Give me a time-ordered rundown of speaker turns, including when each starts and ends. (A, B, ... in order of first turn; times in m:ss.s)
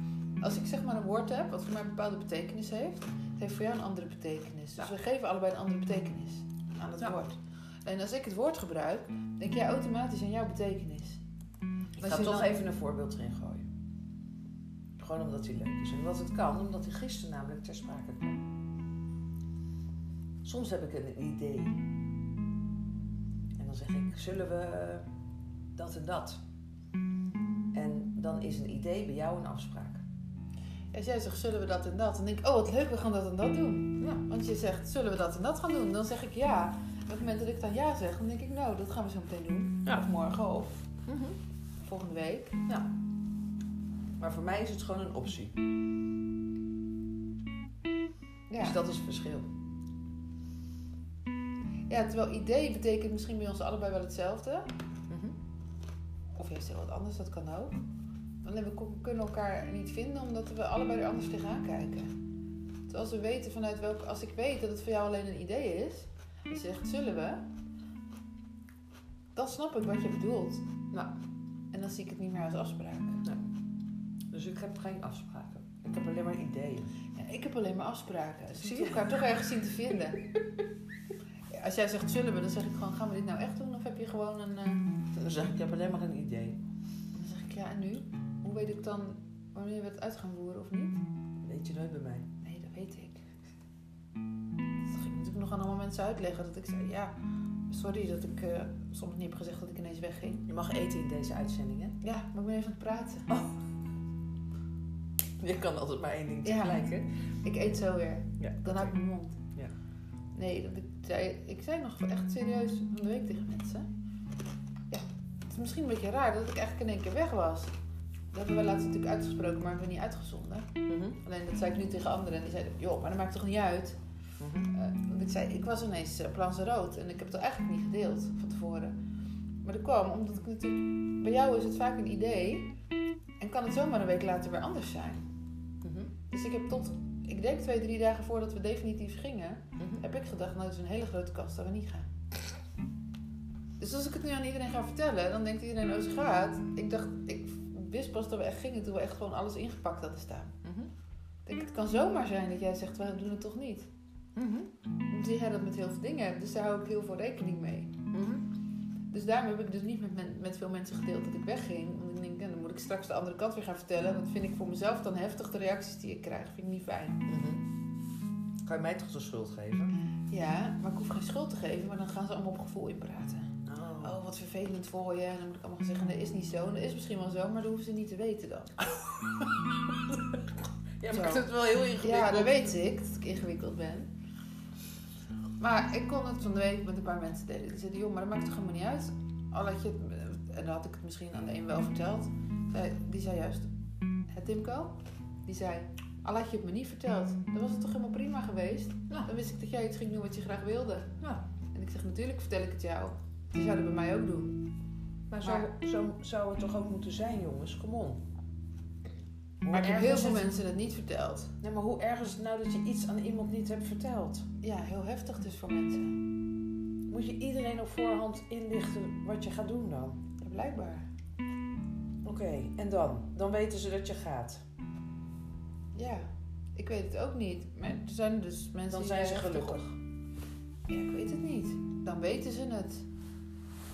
0:00.4-0:11.2 A
0:12.0-0:13.7 B
0:12.0-0:12.6 A
0:15.0-0:18.4 B
0:20.4-0:21.8 B
0:23.6-0:25.1 B
0:25.8-0:26.4 B
0:27.7-0:30.0 B
0:30.9-0:40.9 A
0:41.1-0:41.4 B
0:41.8-0:42.6 A
0:44.2-0:45.6 B
0:48.5-0:48.8 A
0:48.6-0:49.5 B
0:51.9-0:54.7 A
0:55.1-0:55.4 B
0:56.4-0:57.8 A
0:58.4-1:02.1 A
1:02.9-1:07.4 A
1:09.4-1:10.7 A
1:11.7-1:13.2 A
1:14.3-1:16.9 B
1:17.2-1:20.2 A
1:18.6-1:19.2 B
1:21.5-1:24.9 A
1:25.1-1:26.6 B
1:27.2-1:31.0 A
1:31.4-1:32.3 B
1:32.4-1:33.2 A
1:34.8-1:37.1 A
1:37.7-1:40.5 A
1:40.5-1:42.0 B
1:42.0-1:43.3 A
1:45.4-1:47.1 B
1:46.4-1:46.8 A
1:47.4-1:49.4 A
1:48.4-1:48.9 B
1:50.4-1:53.8 A
1:54.9-1:57.7 A
1:58.3-2:04.0 A
2:00.9-2:01.2 B
2:04.4-2:04.7 B
2:04.7-2:09.0 A
2:09.6-2:12.7 A
2:13.4-2:15.3 A
2:15.8-2:16.1 B
2:16.3-2:22.1 A
2:19.8-2:20.0 B
2:23.8-2:30.6 A
2:30.6-2:30.9 B
2:31.5-2:33.9 A
2:34.4-2:34.7 B
2:35.1-2:38.0 A
2:38.1-2:38.5 B
2:39.1-2:47.2 A
2:47.3-2:47.7 B
2:48.6-2:49.9 B
2:50.3-2:58.9 A
2:53.7-2:54.2 B
3:00.1-3:00.4 B
3:01.0-3:02.8 B
3:01.1-3:01.5 A
3:02.0-3:04.1 A
3:05.6-3:13.7 A
3:14.3-3:21.1 A
3:21.7-3:24.6 A
3:25.3-3:28.2 B
3:25.4-3:25.7 A
3:29.6-3:30.6 B
3:29.7-3:31.5 A
3:31.6-3:34.5 B
3:34.6-3:36.2 A
3:37.1-3:40.2 B
3:40.4-3:41.0 A
3:42.2-3:44.6 B
3:46.0-3:49.8 A
3:48.9-3:50.0 B
3:50.9-3:53.1 A